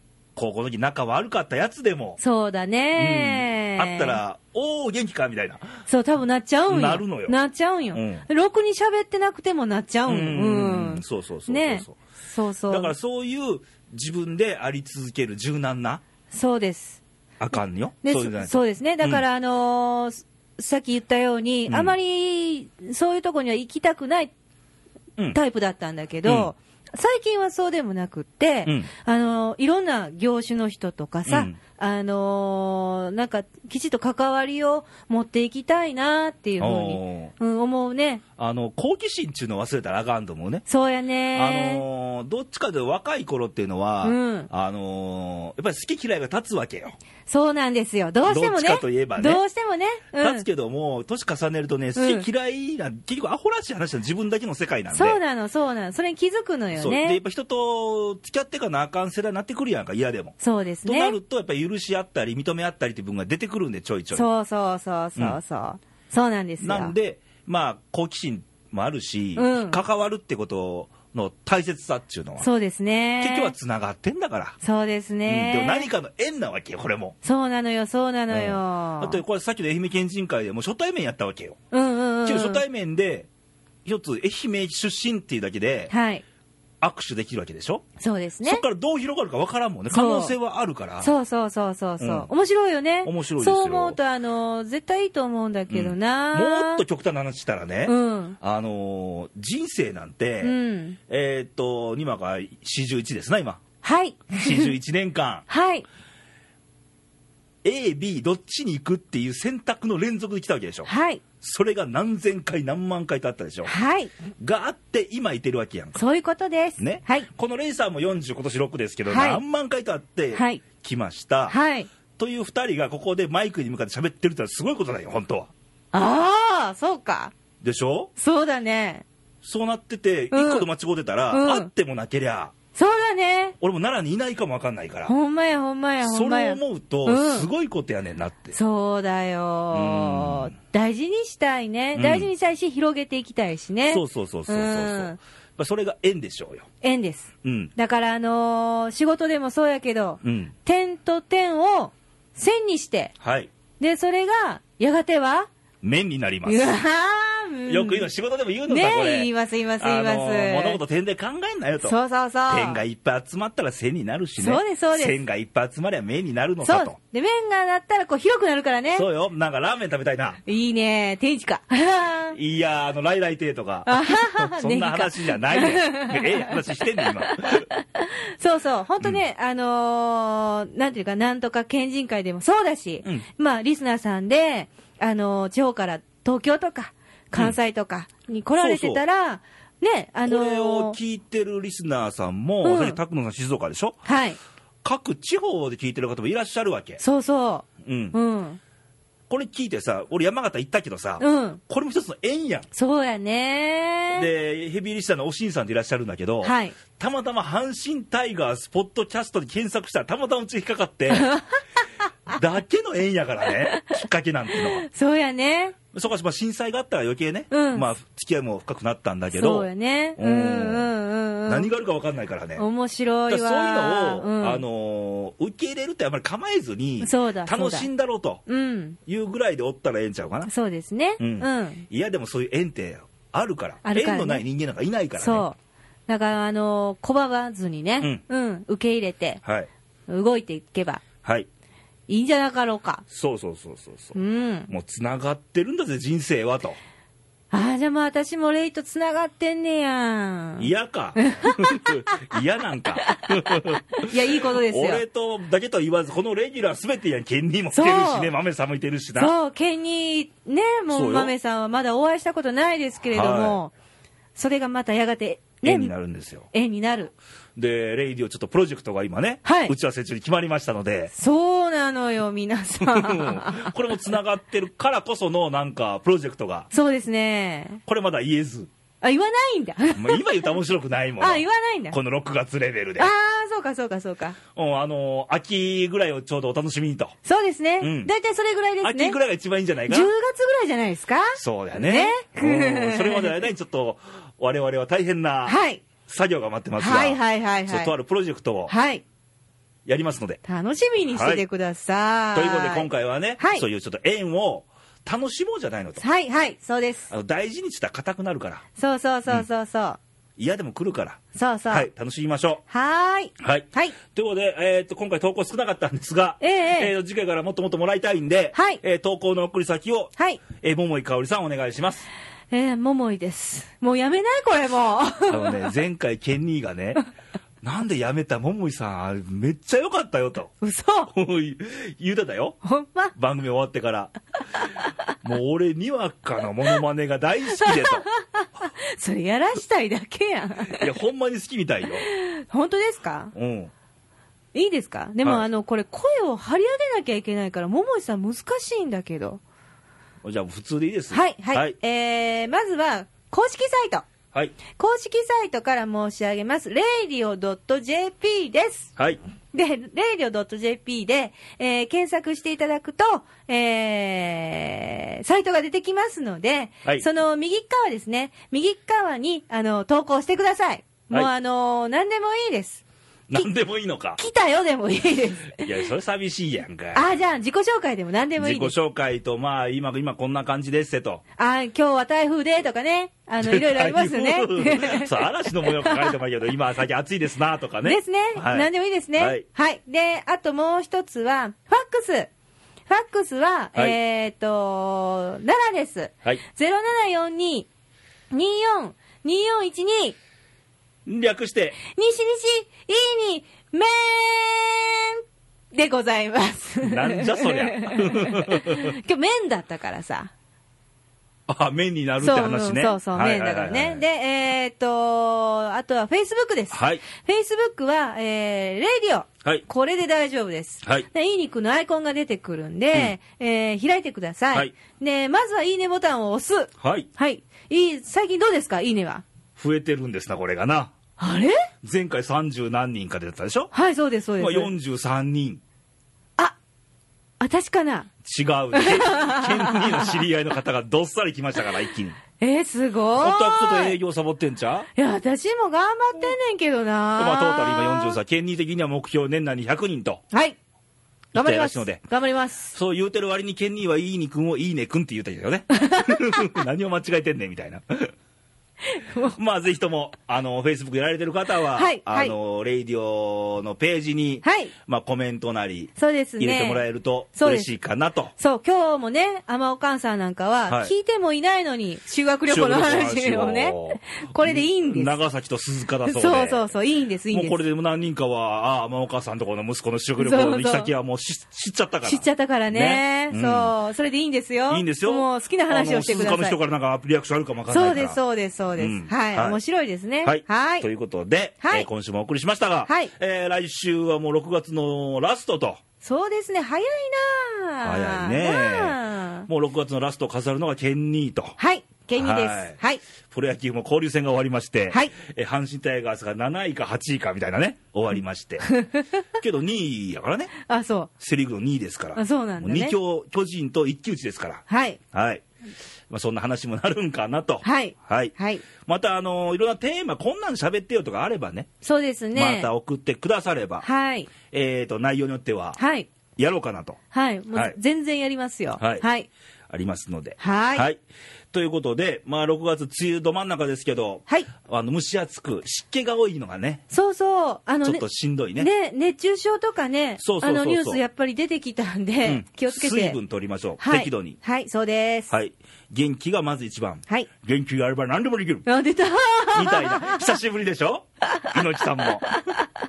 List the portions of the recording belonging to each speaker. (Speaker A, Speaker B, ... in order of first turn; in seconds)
Speaker A: 0.3-2.2, 2.9-5.7, 6.7-7.4, 7.9-8.2, 10.1-11.9, 12.7-16.0, 17.4-19.2, 21.7-21.9, 26.2-26.5, 28.6-28.9, 31.3-31.6, 36.6-37.3, 38.4-40.6, 41.3-47.0, 48.2-49.4, 50.2-55.2, 56.8-64.3, 66.6-72.5, 73.2-74.6, 75.2-77.2, 78.3-81.6, 82.2-83.3, 83.8-85.9, 86.8-87.8, 88.4-91.1, 92.0-92.3, 93.0-94.0, 95.7-100.5, 101.1-103.6, 104.4-105.4, 107.6-110.9, 111.4-113.7, 114.4-116.0, 116.8-121.6, 122.2-125.5, 127.6-128.1, 129.4-132.5, 133.6-135.1, 136.0-138.6, 139.7-140.5, 141.9-142.3, 143.9-146.7, 147.4-147.7, 150.2-150.5, 153.2-153.5, 155.8-156.7, 157.7-166.9, 168.9-170.4, 172.3-177.7, 188.6-189.0, 190.2-194.0, 194.8-197.0, 197.8-198.2, 199.3-202.7, 204.1-211.3, 212.3-214.8, 215.9-220.9, 221.5-222.6, 223.3-228.4, 229.1-230.5, 231.2-235.4, 239.4-239.7, 243.1-244.2, 244.7-246.8, 250.6-259.3, 260.9-261.3, 263.1-263.6, 265.6-266.5, 267.6-271.1, 272.8-276.7, 277.9-278.7, 279.9-283.1, 284.5-287.1, 287.8-288.1, 288.8-290.1, 291.4-298.7, 299.9-300.4, 301.1-301.4, 302.3-306.0, 307.1-308.6, 310.4-312.6, 313.4-322.1, 325.3-327.0, 327.6-330.5, 331.1-332.6, 333.1-334.1, 335.2-338.1, 340.7-342.1, 343.3-343.7, 350.2-351.7, 373.3-374.2, 375.6-377.0, 378.4-381.2, 383.4-389.4, 401.1-401.8, 406.8-408.9, 411.5-414.0, 416.7-417.0, 426.8-427.1, 429.6-430.9, 431.8-433.7, 434.4-435.6, 438.2-442.2, 443.1-444.9, 447.2-450.2, 451.3-452.0, 452.7-458.1, 459.3-468.3, 470.7-470.9, 472.5-476.7, 477.3-483.7, 484.7-488.2, 488.8-489.6, 490.2-495.8, 497.8-501.6, 502.2-502.8, 503.3-508.6, 509.4-510.5, 511.2-515.4, 516.1-521.7, 522.3-523.9, 524.4-525.8, 526.4-527.0, 528.8-529.0, 529.7-531.0, 531.5-536.8, 537.8-538.7, 540.2-541.0, 542.2-544.4, 545.3-548.6, 549.5-552.4
Speaker B: 2.2-4.2, 5.9-12.9, 16.3-17.0, 18.0-24.3, 25.3-38.2, 40.7-41.8, 44.0-44.5, 47.3-50.4, 52.0-52.3, 54.9-57.2, 60.4-61.2, 64.1-66.9, 69.3-69.8, 72.4-73.5, 74.6-75.9, 77.2-79.2, 81.7-82.6, 85.9-86.2, 88.0-88.6, 89.9-90.3, 91.0-96.8, 97.8-98.4, 100.4-101.0, 103.8-104.7, 105.5-105.8, 110.8-111.2, 113.7-114.1, 115.9-117.3, 119.1-119.4, 120.3-120.6, 121.5-121.9, 125.9-127.3, 128.2-129.0, 130.3-130.7, 131.3-131.7, 132.7-133.5, 135.1-137.5, 138.5-145.2, 146.8-153.1, 153.8-155.5, 156.4-158.1, 158.7-160.8, 161.8-162.8, 164.4-165.2, 166.6-169.1, 170.4-172.4, 173.8-191.0, 192.6-193.0, 194.0-194.4, 197.0-198.6, 201.2-201.6, 202.7-204.3, 206.4-206.8, 211.1-211.6, 214.6-215.7, 217.5-217.8, 219.3-221.7, 222.6-224.6, 227.0-227.9, 228.4-229.0, 230.4-231.8, 233.8-234.4, 235.2-235.6, 236.1-239.4, 240.1-241.0, 242.1-243.0, 244.1-244.7, 247.5-252.4, 253.0-255.0, 257.7-258.3, 259.1-263.7, 264.4-265.9, 266.5-267.1, 269.4-269.7, 271.1-273.7, 276.7-277.8, 279.0-280.4, 281.2-282.0, 283.0-284.4, 287.2-289.2, 289.9-293.4, 295.4-295.8, 296.8-297.9, 298.7-299.0, 300.4-302.9, 303.4-303.6, 306.0-307.1, 308.8-310.0, 311.3-311.9, 312.7-314.0, 316.4-316.9, 318.5-318.8, 320.2-320.4, 322.5-325.7, 330.6-331.1, 332.6-333.1, 334.6-334.9, 337.5-340.9, 342.0-343.3, 344.5-349.4, 351.1-354.0, 354.7-358.9, 359.5-372.8, 374.2-375.6, 376.9-378.7, 381.4-386.1, 387.8-392.3, 392.9-397.7, 398.3-400.1, 401.9-405.2, 405.7-410.3, 412.2-429.2, 431.2-431.6, 433.7-434.7, 437.4-438.1, 438.7-440.2, 442.4-444.0, 444.9-448.2, 451.3-452.7, 455.7-456.5, 458.9-459.4, 461.7-462.3, 464.4-464.7, 466.0-466.8, 467.3-467.7, 468.4-475.2, 476.0-477.6, 480.2-480.9, 482.0-486.6, 487.7-490.9, 491.6-491.9, 492.9-493.1, 496.0-499.5, 501.6-503.0, 508.6-509.2, 510.6-511.1, 512.1-513.0, 514.7-515.0, 517.6-518.6, 521.8-522.7, 523.8-524.3, 525.8-526.1, 527.1-529.3, 530.4-530.9, 536.9-538.0, 538.6-543.2, 543.8-545.3, 548.6-550.3, 551.2-552.7